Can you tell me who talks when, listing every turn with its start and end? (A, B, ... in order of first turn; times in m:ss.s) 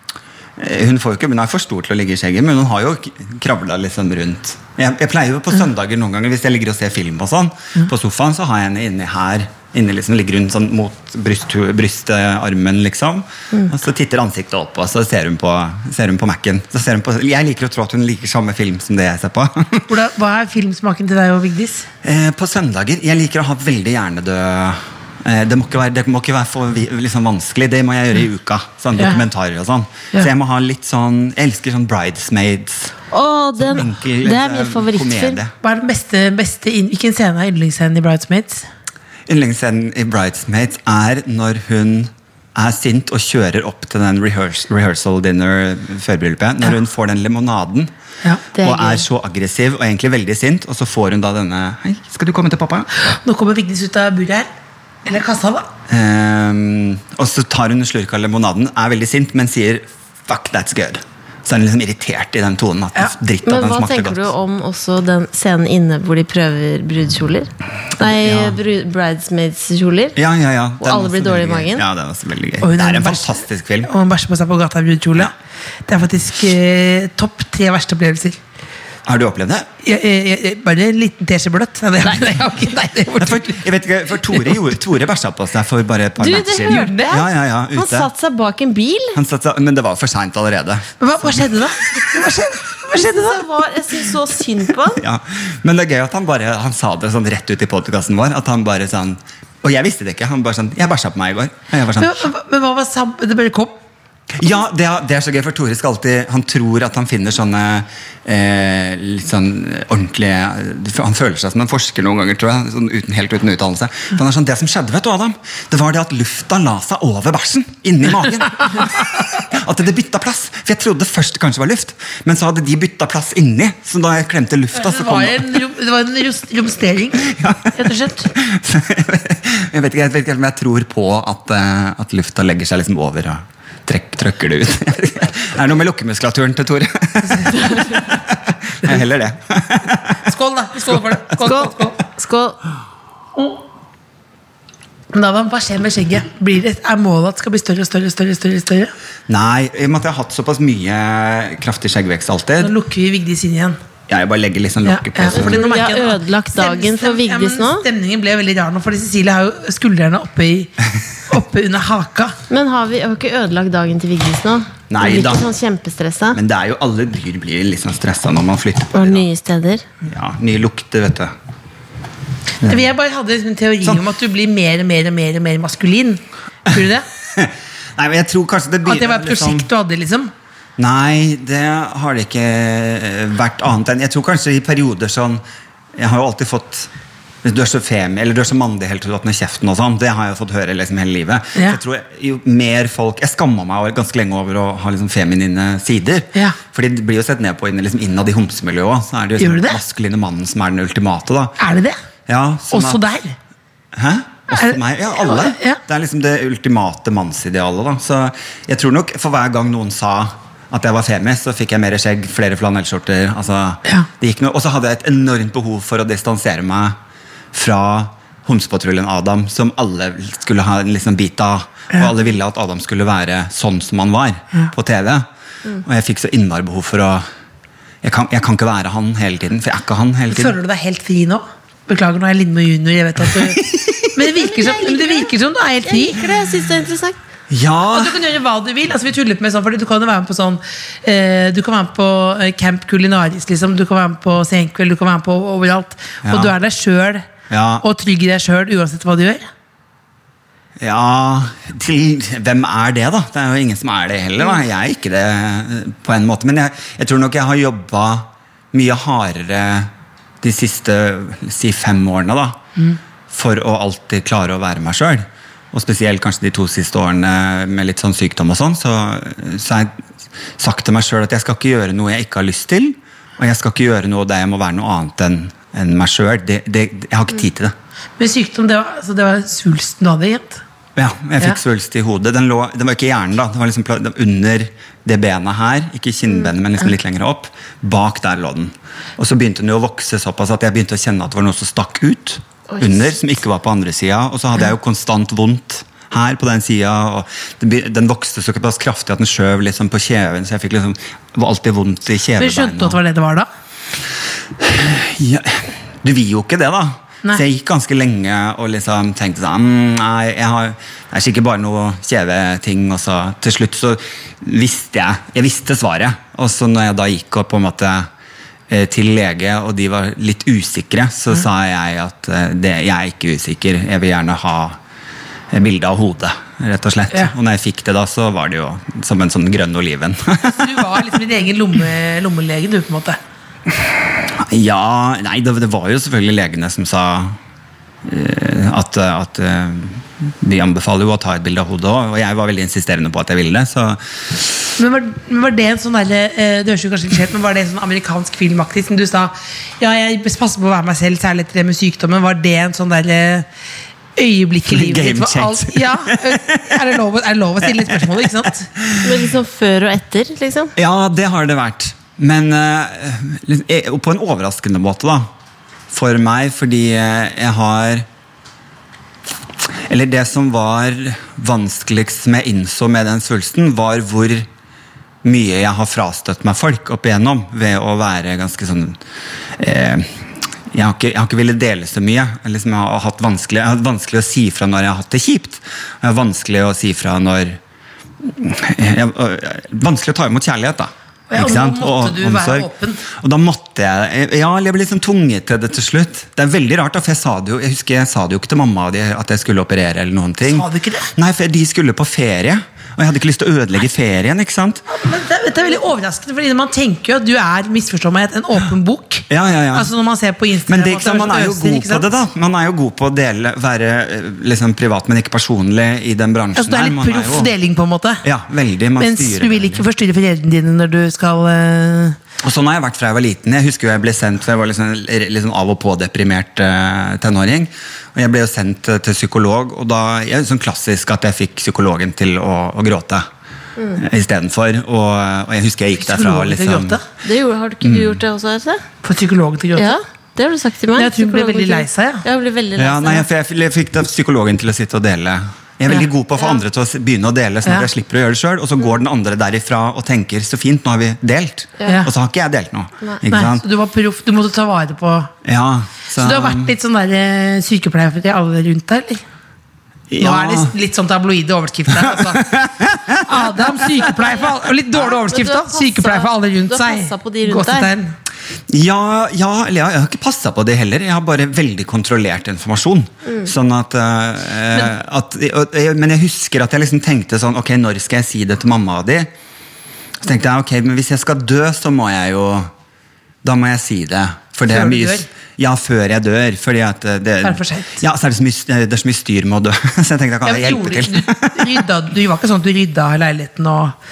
0:00.6-0:19.9 A
0:19.9-0:21.9 B
0:22.0-0:32.9 A
0:29.0-0:29.2 B
0:33.1-0:35.4 C
0:33.6-0:35.5 A
0:35.6-0:38.6 B
0:39.3-0:47.9 A
0:48.5-0:49.0 C
0:48.6-0:52.9 A
0:53.0-0:54.5 B
0:55.0-0:55.7 B
0:55.9-1:04.3 A
1:03.4-1:10.2 C
1:08.0-1:08.6 A
1:10.2-1:13.9 A
1:10.8-1:11.8 C
1:12.6-1:15.3 B
1:15.8-1:18.4 B
1:19.0-1:19.7 A
1:19.8-1:23.6 B
1:23.2-1:28.1 A
1:26.2-1:29.2 C
1:26.3-1:27.2 B
1:29.1-1:31.7 A
1:31.0-1:33.5 B
1:33.0-1:35.0 C
1:34.9-1:42.3 A
1:42.0-1:43.7 B
1:44.3-2:05.6 A
2:04.8-2:08.3 B
2:07.2-2:20.3 A
2:17.4-2:17.8 B
2:20.2-2:22.0 B
2:21.4-2:22.6 C
2:23.4-2:23.6 B
2:25.1-2:28.9 B
2:29.3-2:32.7 A
2:32.6-2:33.8 B
2:34.1-2:35.7 A
2:34.8-2:42.4 B
2:35.3-2:37.8 C
2:42.5-2:46.4 C
2:44.9-2:45.5 A
2:46.3-2:49.3 A
2:48.9-2:49.8 C
2:50.0-2:51.3 A
2:52.6-2:57.0 B
2:57.3-2:59.7 A
2:58.8-3:00.3 B
3:00.8-3:05.4 A
3:06.0-3:06.9 A
3:07.4-3:21.6 A
3:19.4-3:19.8 B
3:21.6-3:22.0 B
3:22.3-3:23.0 A
3:22.7-3:23.4 B
3:23.9-3:37.0 A
3:24.5-3:25.8 B
3:37.5-3:45.2 A
3:45.8-3:47.2 A
3:48.0-3:50.6 A
3:50.3-3:53.6 B
3:53.3-3:54.2 A
3:54.1-3:56.2 B
3:54.4-3:55.3 C
3:55.8-3:57.2 C
3:57.5-3:58.2 A
3:57.9-4:07.3 B
4:06.2-4:06.5 A
4:07.5-4:07.8 A
4:07.8-4:09.5 B
4:10.8-4:22.6 A
4:23.3-4:30.0 A
4:30.6-4:37.7 A
4:38.2-4:40.6 B
4:41.0-5:03.0 A
5:02.4-5:03.5 B
5:04.6-5:18.1 A
5:18.7-5:24.8 A
5:25.5-5:30.8 A
5:30.4-5:33.2 B
5:33.7-5:37.4 A
5:38.0-5:44.5 A
5:44.8-5:53.5 B
5:54.2-5:58.6 B
5:54.7-5:57.0 A
5:57.6-5:59.3 A
5:59.0-6:00.7 C
6:00.8-6:05.3 A
6:05.9-6:08.0 A
6:09.6-6:14.5 A
6:15.2-6:19.0 A
6:19.6-6:27.6 A
6:28.2-6:44.8 A
6:31.3-6:33.0 B
6:40.5-6:41.1 B
6:44.9-6:52.0 B
6:49.3-6:49.9 A
6:50.7-6:57.5 A
6:56.6-6:58.2 B
6:58.2-6:59.8 A
6:59.0-7:02.2 B
7:02.4-7:13.2 A
7:13.9-7:17.0 A
7:16.0-7:17.0 B
7:17.2-7:18.8 C
7:17.8-7:18.2 A
7:19.0-7:20.0 B
7:19.7-7:23.2 C
7:21.0-7:22.2 B
7:22.8-7:33.6 A
7:31.9-7:32.1 B
7:33.3-7:35.3 B
7:35.4-7:36.7 A
7:36.2-7:39.2 B
7:40.1-7:40.7 A
7:40.2-7:42.5 B
7:41.9-7:44.3 A
7:43.1-7:48.1 B
7:45.0-7:47.9 C
7:48.7-7:59.3 A
8:00.2-8:02.7 A
8:03.4-8:11.8 A
8:04.7-8:05.3 B
8:07.4-8:08.0 B
8:10.4-8:14.0 B